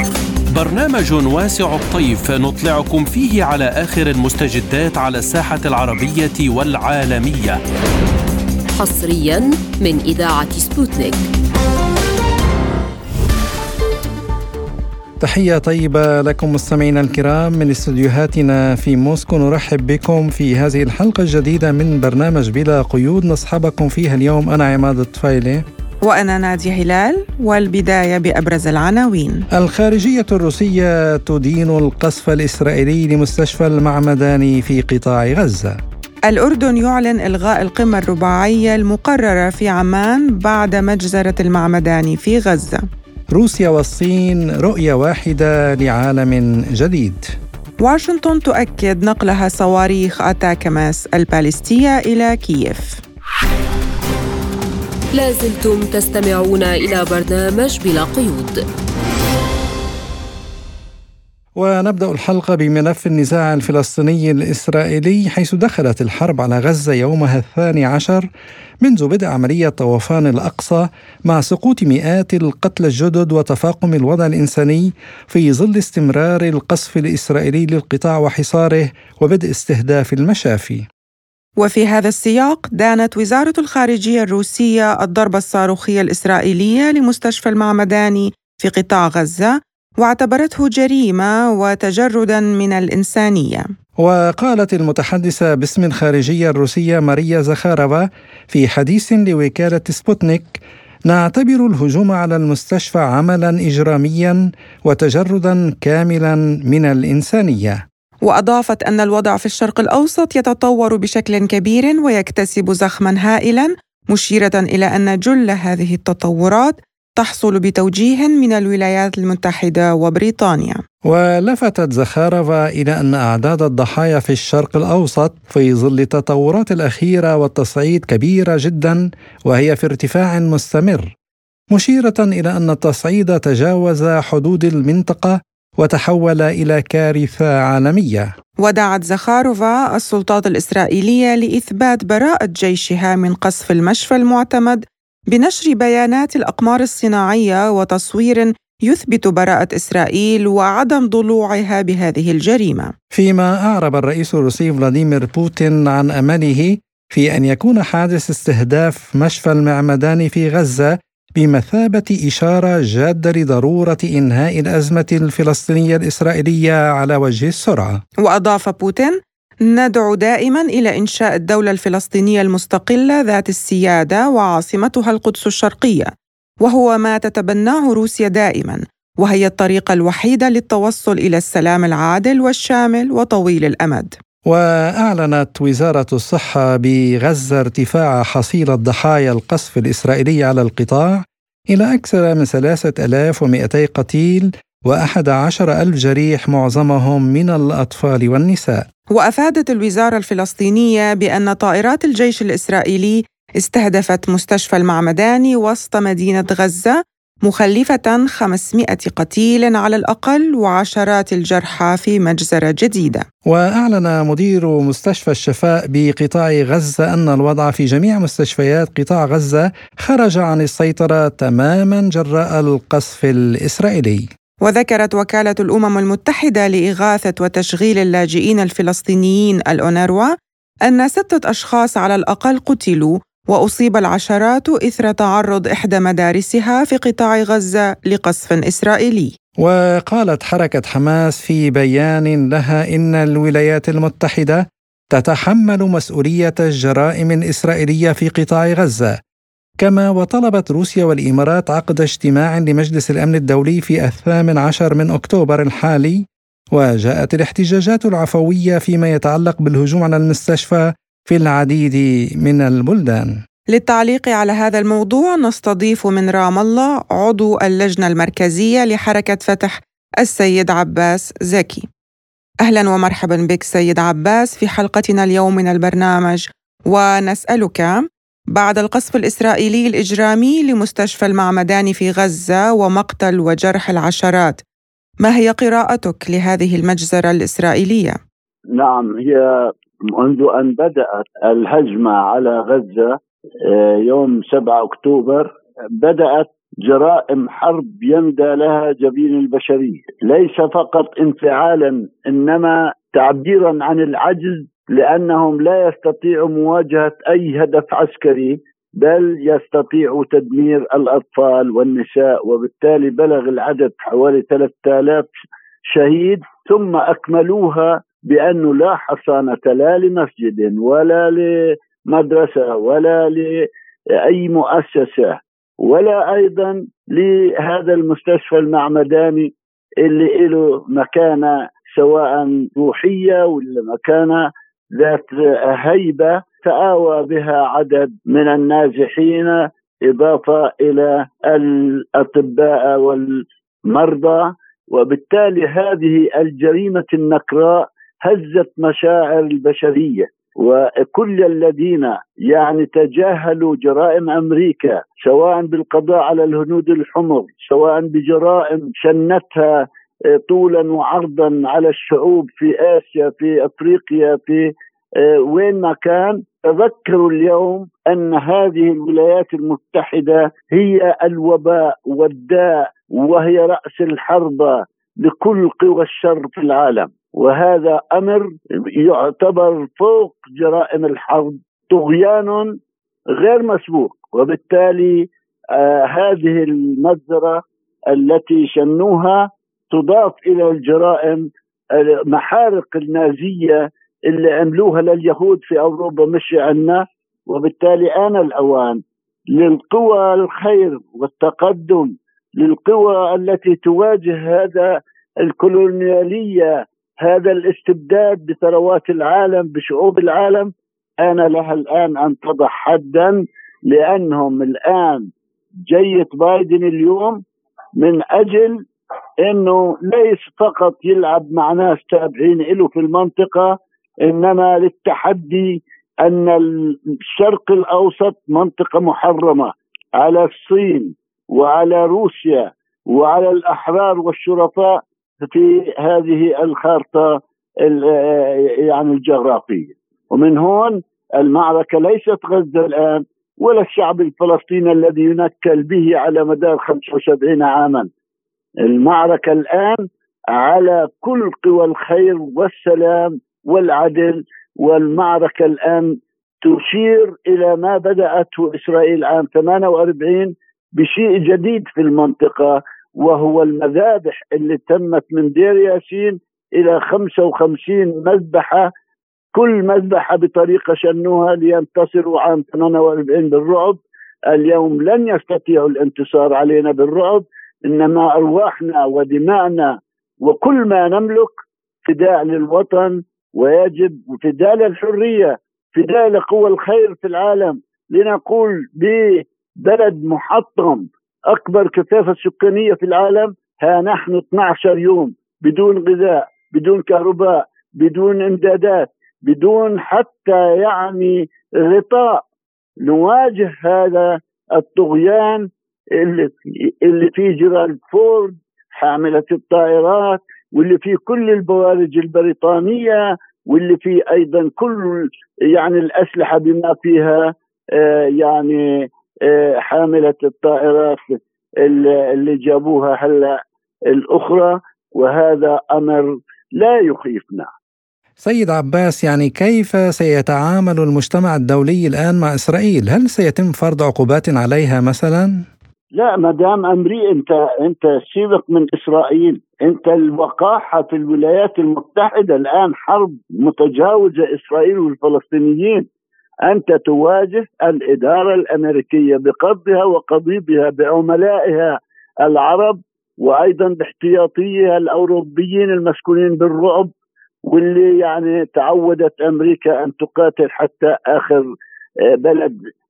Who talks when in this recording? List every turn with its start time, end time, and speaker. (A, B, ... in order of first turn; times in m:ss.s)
0:00.6-0:07.2 A
0:08.7-0:11.2 B
0:15.2-0:25.6 C
0:26.1-0:29.4 D
0:29.6-0:35.8 C
0:36.3-0:42.8 D
0:43.3-0:47.3 C
0:47.8-0:53.0 D
0:55.2-0:58.6 B
1:01.6-1:08.2 C
1:08.8-1:20.9 C
1:21.6-1:33.7 D
1:34.0-1:40.6 C
1:41.1-1:47.8 C
1:48.3-2:00.8 D
2:01.1-2:11.1 C
2:11.7-2:18.3 C
2:18.6-2:32.9 D
2:33.1-2:48.0 C
2:48.2-2:49.2 D
2:49.7-2:56.1 D
2:56.6-3:04.1 D
3:04.5-3:18.8 C
3:19.1-3:33.2 D
3:33.5-3:44.2 C
3:44.6-3:50.3 D
3:50.9-3:59.3 D
3:59.6-4:04.6 C
4:05.1-4:09.2 C
4:09.8-4:16.2 C
4:16.7-4:23.3 C
4:23.7-4:31.9 D
4:32.6-4:38.0 D
4:38.6-4:44.6 D
4:45.2-4:48.2 D
4:48.8-5:15.3 E
5:15.9-5:21.5 E
5:22.1-5:23.6 E
5:24.2-5:29.5 E
5:30.0-5:59.7 E
6:00.4-6:04.7 E
6:05.2-6:22.8 E
6:23.4-6:39.0 E
6:39.5-6:46.7 E
6:47.2-6:55.3 E
6:55.9-6:57.4 E
6:58.0-6:58.8 E
6:59.4-7:28.1 E
7:28.8-7:48.9 E
7:49.6-7:54.0 E
7:54.5-8:01.5 E
8:02.0-8:22.4 E
8:23.0-8:25.7 E
8:26.2-8:38.8 E
8:39.5-8:43.6 E
8:44.1-8:47.7 E
8:48.4-8:55.6 C
8:56.2-9:06.1 E
9:06.7-9:17.1 E
9:17.7-9:21.6 E
9:22.4-9:22.8 E